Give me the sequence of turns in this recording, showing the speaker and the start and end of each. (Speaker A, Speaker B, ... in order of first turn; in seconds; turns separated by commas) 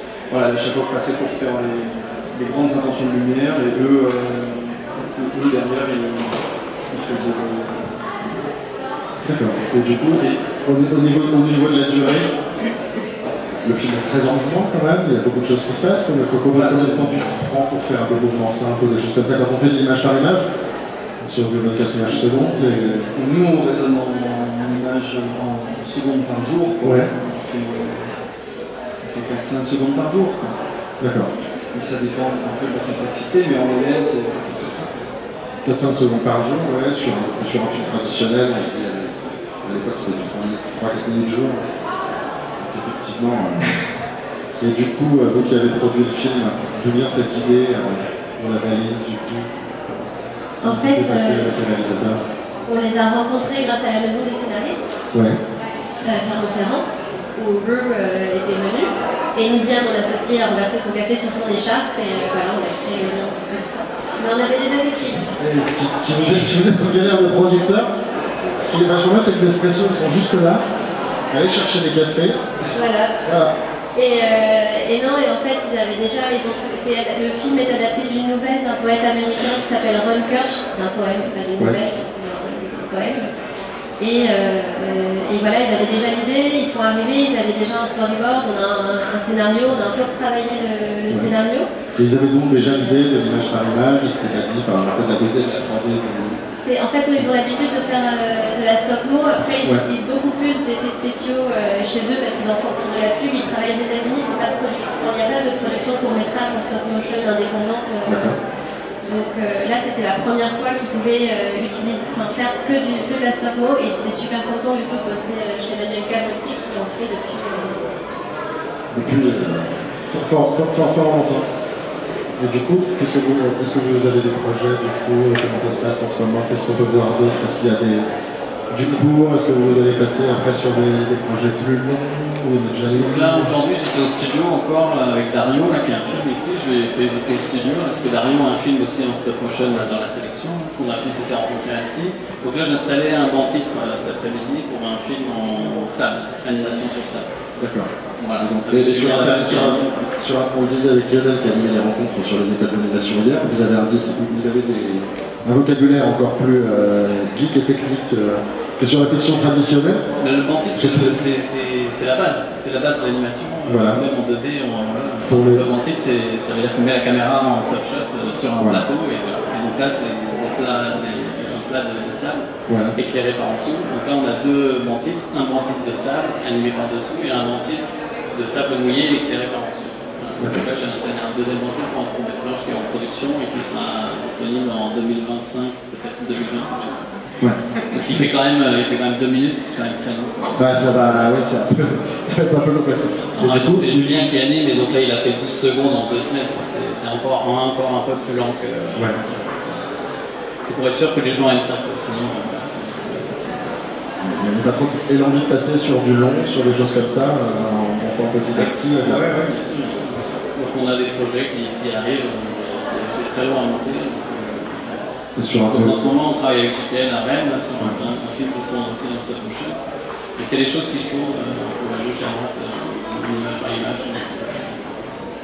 Speaker A: 0.3-8.4, Speaker B: 9.2-12.3, Speaker A: 10.1-10.4, Speaker B: 13.6-20.5, Speaker A: 16.5-17.3, Speaker B: 21.2-23.1, Speaker A: 22.1-28.1, Speaker B: 26.8-27.1, Speaker A: 29.0-30.6, Speaker B: 31.0-31.3, Speaker A: 31.7-34.9, Speaker B: 35.6-41.6, Speaker B: 42.6-43.6, Speaker B: 44.6-49.9, Speaker C: 50.6-51.5, Speaker B: 50.6-52.2, Speaker C: 52.6-54.8, Speaker B: 55.1-55.4, Speaker C: 56.0-65.3, Speaker B: 65.4-67.9, Speaker B: 68.6-70.6, Speaker B: 71.3-72.5, Speaker C: 72.7-73.1, Speaker B: 73.2-73.5, Speaker C: 74.0-83.3, Speaker C: 84.0-91.7, Speaker B: 92.0-96.4, Speaker C: 96.6-108.2, Speaker B: 108.0-108.3, Speaker C: 109.0-117.8, Speaker B: 118.9-121.5, Speaker B: 122.4-128.1, Speaker B: 128.7-133.5, Speaker D: 132.9-147.3, Speaker B: 147.6-160.0, Speaker D: 148.2-149.9, Speaker D: 160.2-187.2, Speaker B: 160.8-161.2, Speaker B: 163.6-164.0, Speaker B: 165.2-165.7, Speaker B: 168.6-168.8, Speaker B: 172.7-172.9, Speaker B: 180.4-180.7, Speaker B: 187.4-188.2, Speaker D: 187.9-191.4, Speaker B: 190.6-194.2, Speaker D: 193.3-199.8, Speaker D: 200.6-203.8, Speaker B: 204.2-209.5, Speaker D: 206.9-207.3, Speaker D: 208.5-219.8, Speaker B: 215.4-215.9, Speaker D: 220.4-225.0